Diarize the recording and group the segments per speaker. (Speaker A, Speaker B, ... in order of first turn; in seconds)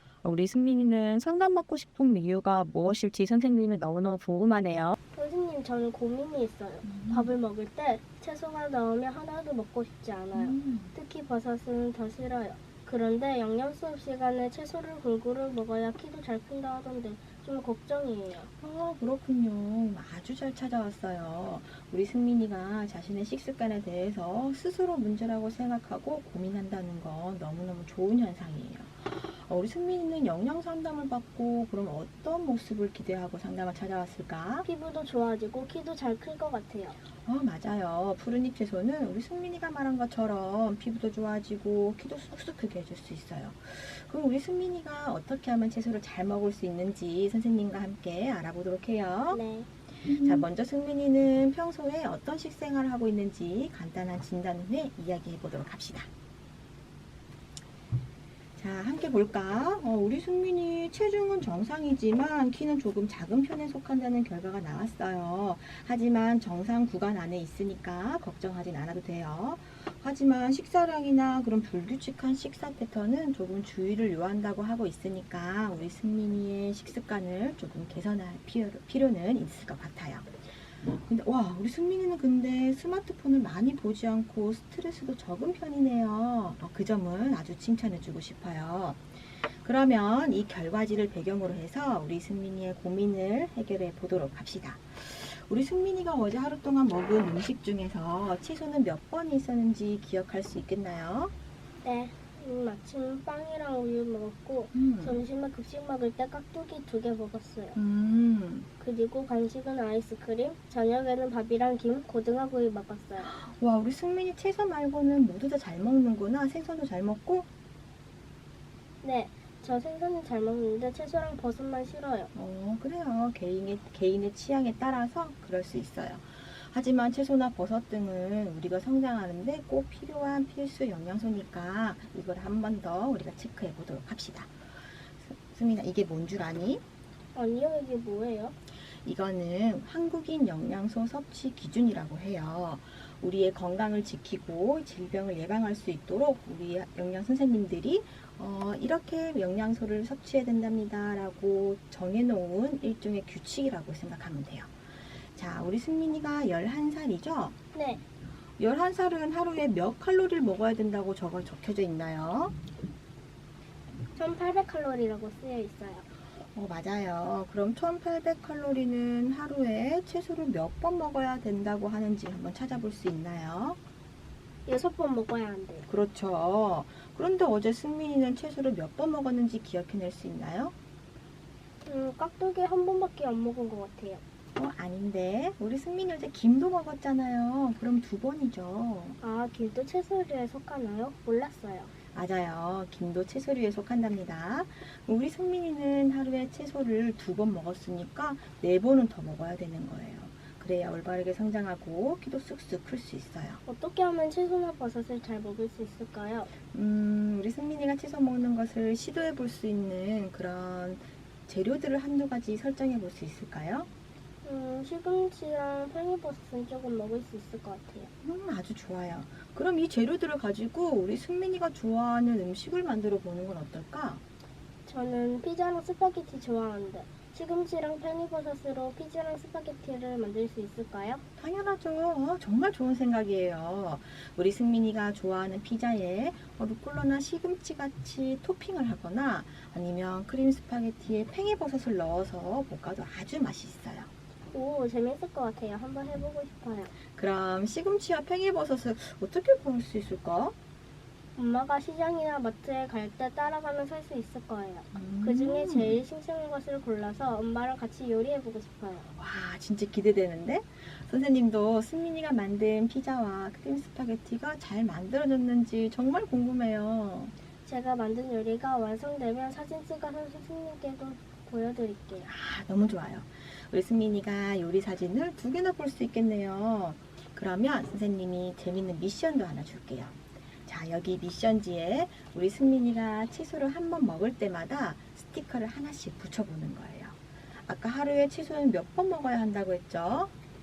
Speaker A: 0.2-5.0, 6.8-7.3, 10.3-10.9, 18.6-34.7, 37.2-49.4, 50.0-56.1, 58.6-80.3, 80.8-101.3, 104.7-105.2, 107.8-108.7, 113.2-117.5, 122.3-134.6, 135.2-136.8, 139.1-154.8, 155.3-157.6, 158.6-162.6, 166.5-173.8, 175.9-180.7, 184.6-189.2, 192.1-203.6, 206.7-213.9, 218.2-224.2, 231.4-244.1, 247.1-250.6, 254.9-256.0, 259.1-267.4, 272.2-290.3
Speaker B: 5.1-18.5, 34.6-37.0, 49.3-49.7, 101.8-107.8, 108.8-113.3, 119.0-122.3, 137.3-138.6, 157.7-158.0, 164.1-166.1, 174.7-175.9, 181.8-184.2, 189.2-191.9, 203.7-206.5, 214.4-218.1, 224.9-231.2, 244.5-246.9, 251.4-259.1, 267.6-272.3